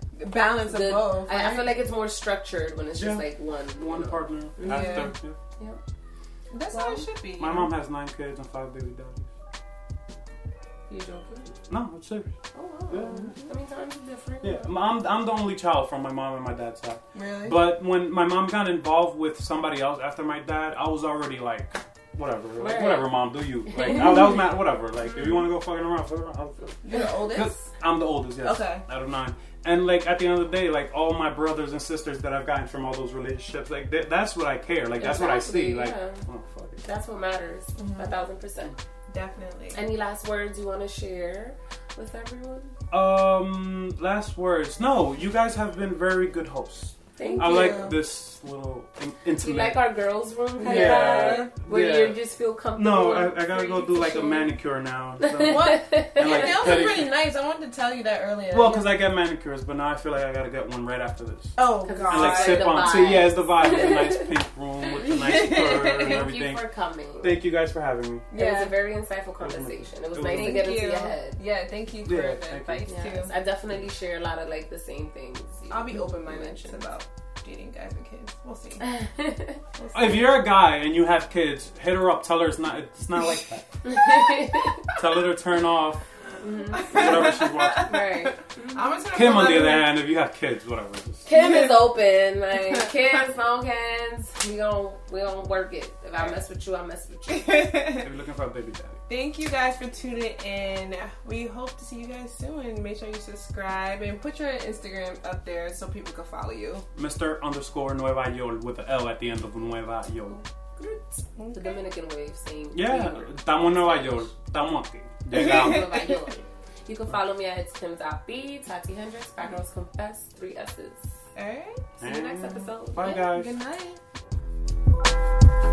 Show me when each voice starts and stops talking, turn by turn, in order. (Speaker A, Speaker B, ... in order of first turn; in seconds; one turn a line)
Speaker A: 0.2-1.8
Speaker B: 0.7-5.8
Speaker C: 3.0-5.4
Speaker A: 4.6-5.1
Speaker A: 6.5-7.7
Speaker B: 6.7-7.1
Speaker C: 7.4-9.3
Speaker B: 10.9-11.5
Speaker C: 11.7-12.4
Speaker B: 12.5-14.7
Speaker C: 12.9-13.3
Speaker C: 14.4-36.8
Speaker A: 17.1-17.6
Speaker B: 22.6-23.2
Speaker B: 23.7-24.3
Speaker A: 25.1-25.4
Speaker A: 26.8-27.7
Speaker A: 28.4-28.8
Speaker B: 35.0-36.3
Speaker B: 36.8-38.8
Speaker A: 37.8-38.1
Speaker A: 39.1-39.8
Speaker B: 39.7-42.8
Speaker C: 42.9-49.9
Speaker B: 47.2-47.9
Speaker A: 47.2-48.0
Speaker B: 49.4-54.5
Speaker A: 50.6-51.5
Speaker C: 50.6-52.2
Speaker C: 52.8-57.1
Speaker B: 55.2-56.9
Speaker A: 55.4-58.9
Speaker C: 58.5-66.6
Speaker A: 61.6-63.3
Speaker B: 61.8-64.3
Speaker A: 65.0-66.3
Speaker B: 65.4-67.4
Speaker C: 67.2-68.3
Speaker A: 68.3-68.8
Speaker B: 68.3-71.4
Speaker C: 69.4-70.8
Speaker A: 70.3-73.3
Speaker C: 72.0-72.9
Speaker B: 72.9-76.9
Speaker A: 75.7-78.9
Speaker B: 78.8-79.6
Speaker A: 79.8-80.4
Speaker C: 79.9-83.9
Speaker B: 83.8-84.9
Speaker A: 84.3-85.0
Speaker C: 85.0-86.0
Speaker B: 86.4-89.0
Speaker A: 86.7-89.9
Speaker C: 86.9-88.0
Speaker C: 89.1-91.3
Speaker B: 91.3-97.7
Speaker A: 91.3-91.9
Speaker A: 92.6-93.2
Speaker A: 96.2-96.4
Speaker A: 97.3-98.1
Speaker C: 98.0-99.0
Speaker A: 99.1-106.8
Speaker C: 107.0-110.4
Speaker A: 110.8-111.8
Speaker B: 111.5-114.3
Speaker C: 112.7-116.1
Speaker B: 115.3-121.2
Speaker A: 115.3-116.3
Speaker A: 121.3-121.9
Speaker B: 122.0-123.3
Speaker C: 122.0-123.5
Speaker A: 123.0-124.0